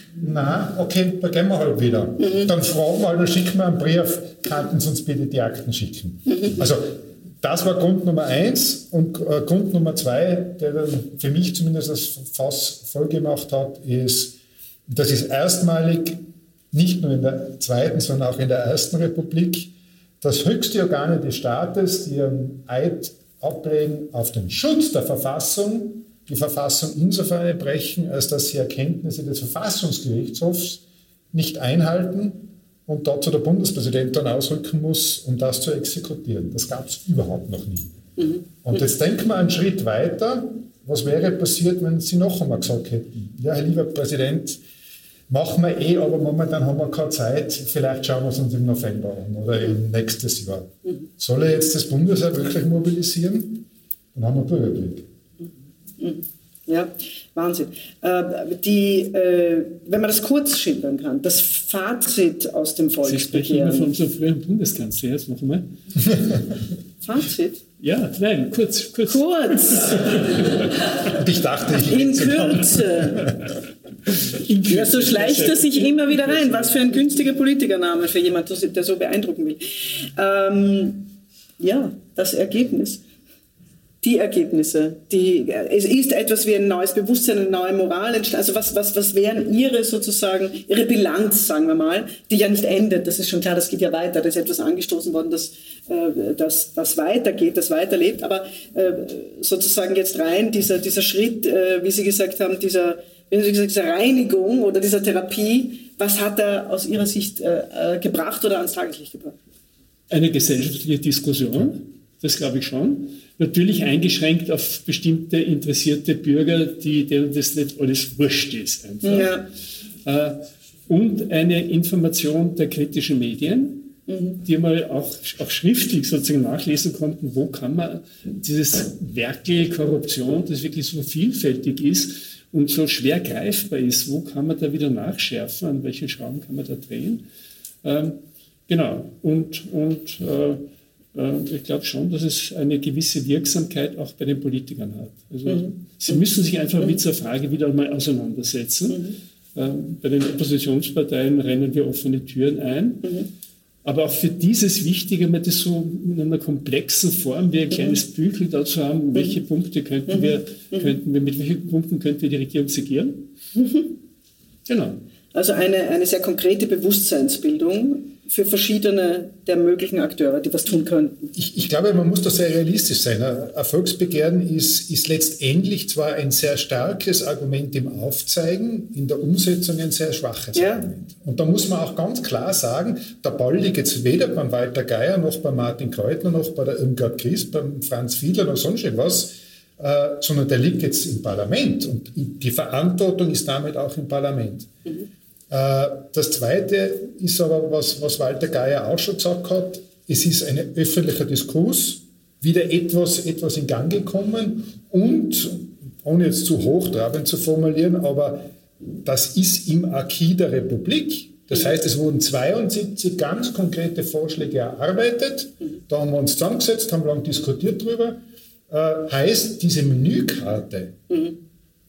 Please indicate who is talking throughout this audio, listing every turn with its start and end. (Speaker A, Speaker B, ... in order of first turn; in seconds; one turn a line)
Speaker A: 0.2-30.8
Speaker B: 2.2-2.5
Speaker B: 6.3-6.6
Speaker A: 31.3-38.0
Speaker B: 38.2-38.8
Speaker A: 38.6-44.6
Speaker A: 45.3-55.1
Speaker B: 56.0-63.9
Speaker C: 63.0-65.7
Speaker B: 67.0-67.7
Speaker C: 67.8-69.2
Speaker B: 69.1-70.3
Speaker A: 71.1-73.3
Speaker B: 71.7-73.3
Speaker C: 74.4-76.8
Speaker B: 74.7-81.1
Speaker B: 81.6-83.0
Speaker B: 84.0-109.4
Speaker C: 110.1-119.3
Speaker B: 119.0-119.5
Speaker C: 120.0-123.9
Speaker B: 124.1-124.4
Speaker C: 124.4-137.2
Speaker C: 137.8-153.1
Speaker B: 145.5-146.2
Speaker B: 148.9-149.2
Speaker C: 153.8-163.3
Speaker B: 160.1-160.9
Speaker B: 163.6-163.9
Speaker C: 164.7-165.0
Speaker B: 165.3-171.3
Speaker A: 171.3-194.7
Speaker B: 180.6-180.9
Speaker A: 195.5-208.5
Speaker A: 209.0-221.0
Speaker B: 221.1-221.4